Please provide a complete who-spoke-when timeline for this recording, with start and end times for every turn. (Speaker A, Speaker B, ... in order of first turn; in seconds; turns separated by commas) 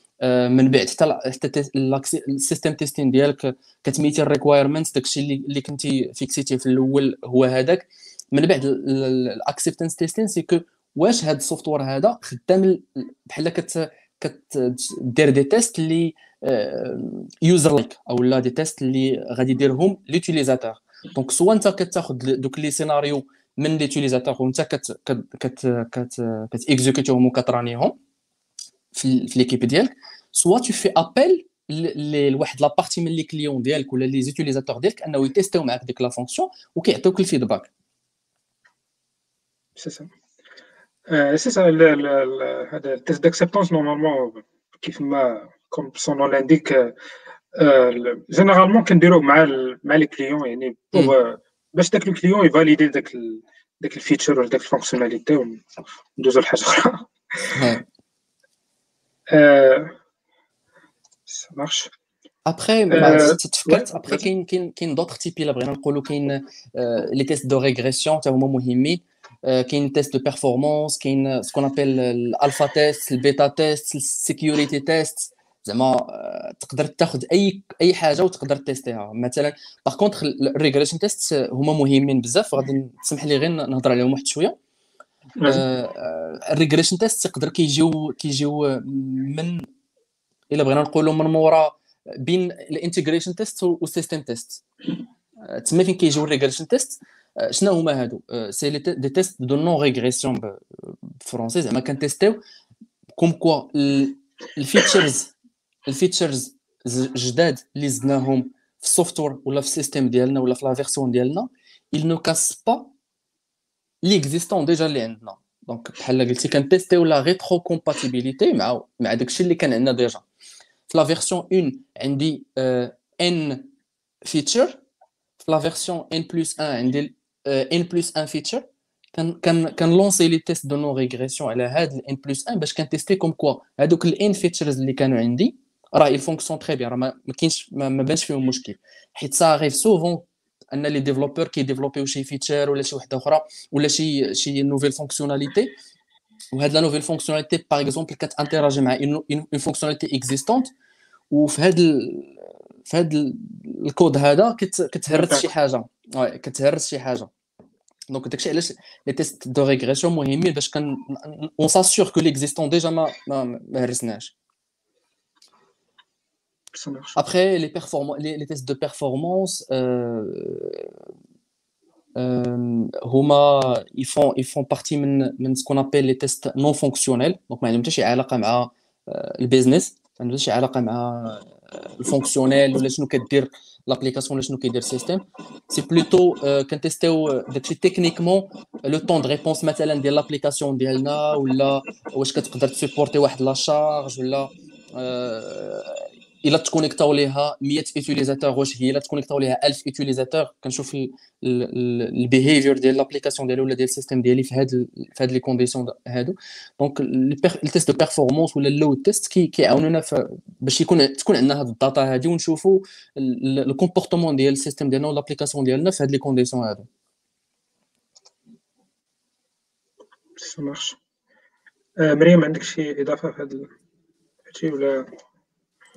Speaker A: 0.2-28.0, Speaker A: 28.9-37.7, Speaker B: 39.8-40.1, Speaker B: 41.1-46.9, Speaker B: 47.5-55.6, Speaker B: 56.1-57.7, Speaker A: 57.5-57.8, Speaker B: 59.3-59.9, Speaker B: 61.3-61.9, Speaker A: 62.5-84.5, Speaker B: 62.9-64.2, Speaker B: 85.4-85.6, Speaker A: 85.4-89.7, Speaker A: 90.5-94.6, Speaker A: 95.4-102.4, Speaker A: 103.2-105.3, Speaker A: 105.8-112.9, Speaker A: 114.0-120.2, Speaker A: 120.9-123.7, Speaker A: 124.2-124.8, Speaker A: 125.4-145.7, Speaker A: 146.5-150.7, Speaker A: 151.3-157.3, Speaker B: 155.1-155.5, Speaker A: 158.1-164.3, Speaker B: 166.7-167.2, Speaker A: 167.2-170.9, Speaker A: 172.2-216.9, Speaker B: 220.4-221.0, Speaker B: 222.0-223.7, Speaker B: 224.5-225.1